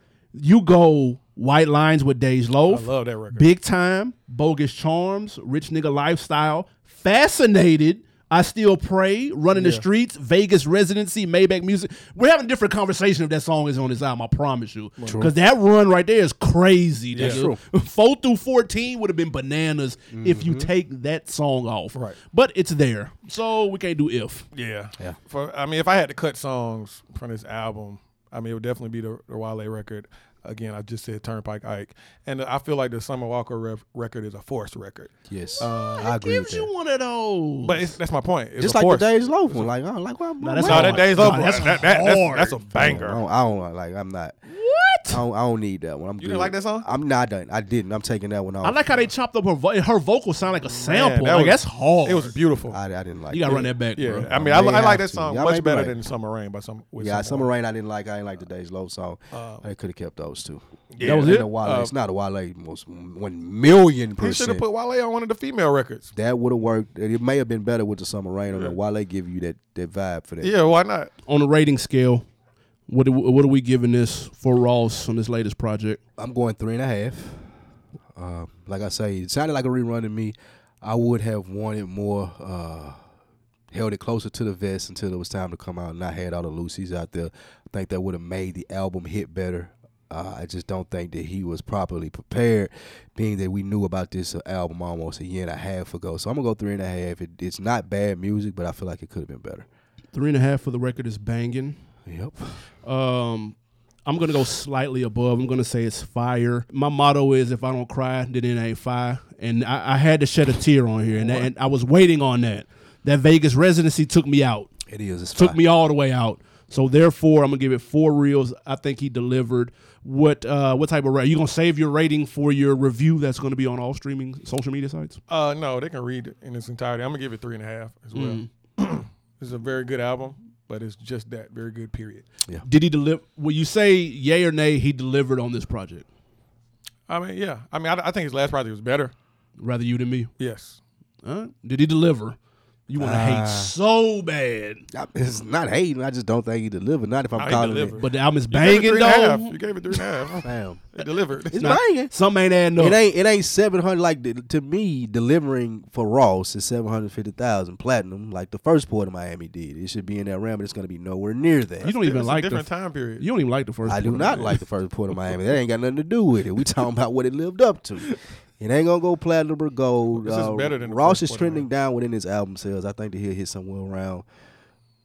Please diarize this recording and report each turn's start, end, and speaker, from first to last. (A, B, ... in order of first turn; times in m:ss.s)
0:00.3-0:24.4 A
0:02.7-0:03.4 B
0:09.5-0:09.8 B
0:15.0-0:15.3 C
0:17.1-0:17.4 B
0:17.2-0:17.6 C
0:20.1-0:20.7 C
0:24.5-0:36.1 B
0:35.3-0:36.7 C
0:35.7-0:37.9 A
0:37.6-0:39.7 B
0:38.6-0:41.6 C
0:40.4-0:42.6 A
0:40.6-0:43.2 B
0:42.7-0:44.4 C
0:44.5-0:45.2 A
0:45.1-0:48.8 C
0:46.2-0:46.9 B
0:48.6-0:52.4 A
0:50.6-0:52.8 B
0:52.7-0:53.7 C
0:53.3-0:54.3 A
0:53.5-0:57.5 B
0:54.2-0:56.0 C
0:57.0-1:04.6 C
0:59.3-0:59.6 B
1:00.9-1:01.9 B
1:01.0-1:01.5 A
1:04.2-1:06.1 B
1:06.1-1:10.5 C
1:08.5-1:08.8 B
1:10.4-1:11.1 B
1:11.3-1:12.2 A
1:12.9-1:16.0 A
1:16.2-1:17.5 C
1:18.1-1:23.0 C
1:23.7-1:39.6 C
1:40.1-1:41.8 A
1:42.0-1:42.6 C
1:42.8-1:54.7 A
1:54.9-1:55.6 C
1:55.3-2:05.2 A
2:05.3-2:12.2 B
2:08.1-2:08.5 A
2:12.6-2:16.0 A
2:17.1-2:19.1 B
2:19.6-2:20.3 A
2:20.4-2:20.8 B
2:21.2-2:22.4 A
2:22.9-2:24.8 A
2:23.0-2:23.7 C
2:24.9-2:28.0 C
2:27.4-2:31.7 B
2:28.0-2:30.0 A
2:30.4-2:30.9 C
2:31.5-2:32.1 C
2:31.6-2:33.0 A
2:32.8-2:41.9 C
2:41.8-2:43.3 B
2:41.8-2:42.7 A
2:43.2-2:44.6 A
2:43.8-2:54.2 C
2:50.1-2:51.7 B